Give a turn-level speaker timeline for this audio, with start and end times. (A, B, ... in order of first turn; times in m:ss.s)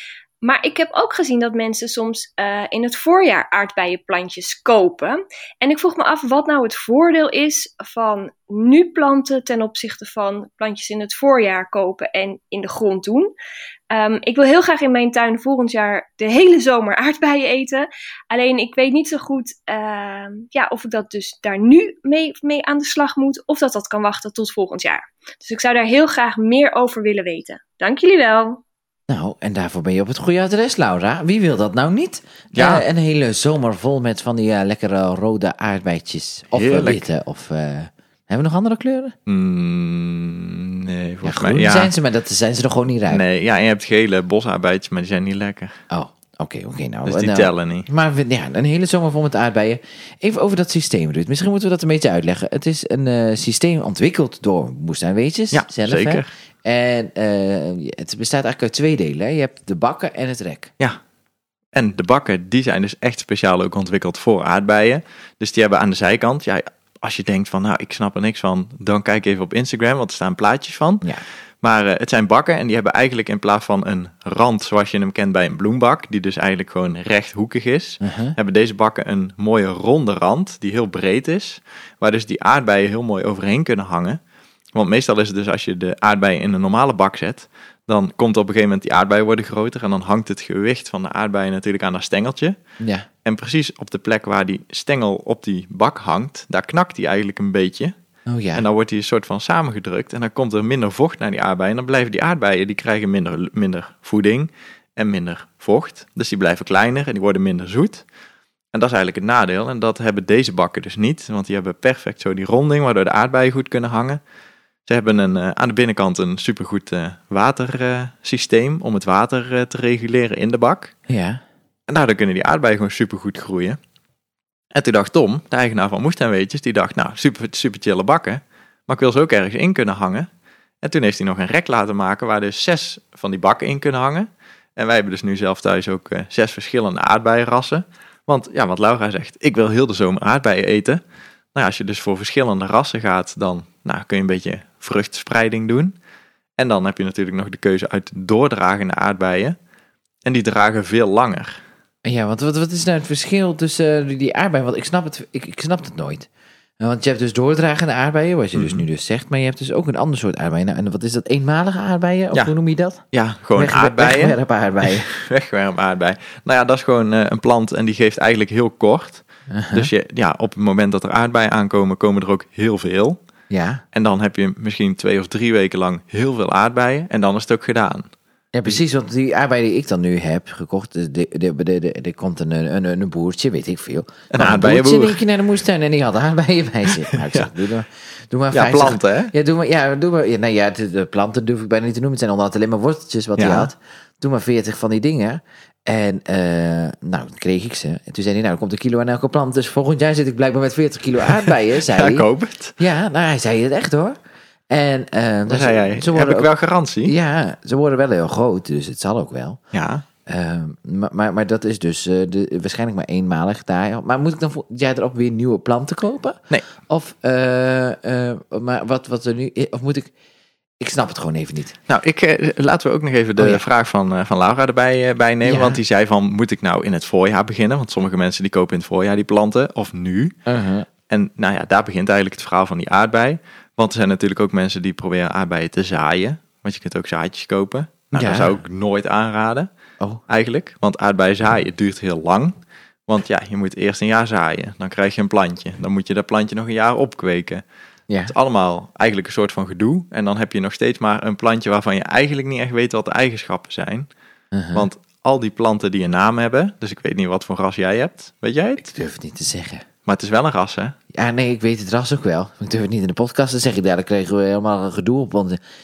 0:00.4-0:13.3 A
0:13.9-0:28.6 A
0:29.1-0:39.2 B
0:32.5-0:32.8 C
0:36.5-0:37.1 C
0:39.3-0:41.9 C
0:41.2-0:43.2 B
0:43.1-0:45.8 C
0:45.9-1:00.7 B
0:47.0-0:47.9 C
0:55.5-0:56.3 C
1:01.7-1:11.1 C
1:11.6-1:24.2 C
1:18.0-1:18.4 B
1:24.7-1:32.6 C
1:32.8-1:33.1 B
1:33.2-1:38.0 C
1:38.3-1:38.6 B
1:38.6-1:48.0 C
1:48.7-1:54.2 C
1:54.9-2:01.0 C
2:01.1-2:01.4 B
2:01.9-2:03.8 C
2:04.7-2:10.3 C
2:10.8-2:21.0 C
2:21.6-2:26.0 C
2:26.6-2:29.6 C
2:30.2-2:31.6 C
2:32.0-2:36.3 B
2:36.8-2:43.0 B
2:38.6-2:38.8 C
2:43.1-2:53.2 C
2:43.6-2:45.1 B
2:49.5-2:49.9 B
2:53.5-2:53.8 B
2:53.9-2:58.1 C
2:58.5-3:22.3 B
3:04.3-3:05.2 C
3:06.9-3:07.5 C
3:08.5-3:09.3 C
3:13.4-3:13.7 C
3:21.3-3:22.7 C
3:22.8-3:24.2 B
3:24.7-3:26.5 B
3:25.5-3:27.1 C
3:27.0-3:29.6 B
3:29.7-3:30.0 C
3:30.3-3:40.1 B
3:40.8-3:41.8 B
3:41.9-3:50.4 C
3:45.4-3:45.8 B
3:50.5-3:50.9 B
3:51.1-3:59.7 C
3:58.1-3:58.6 B
4:00.3-4:07.6 C
4:08.3-4:14.1 C
4:14.5-4:14.9 B
4:14.7-4:18.9 C
4:18.8-4:19.8 B
4:20.0-4:21.0 C
4:21.1-4:25.6 B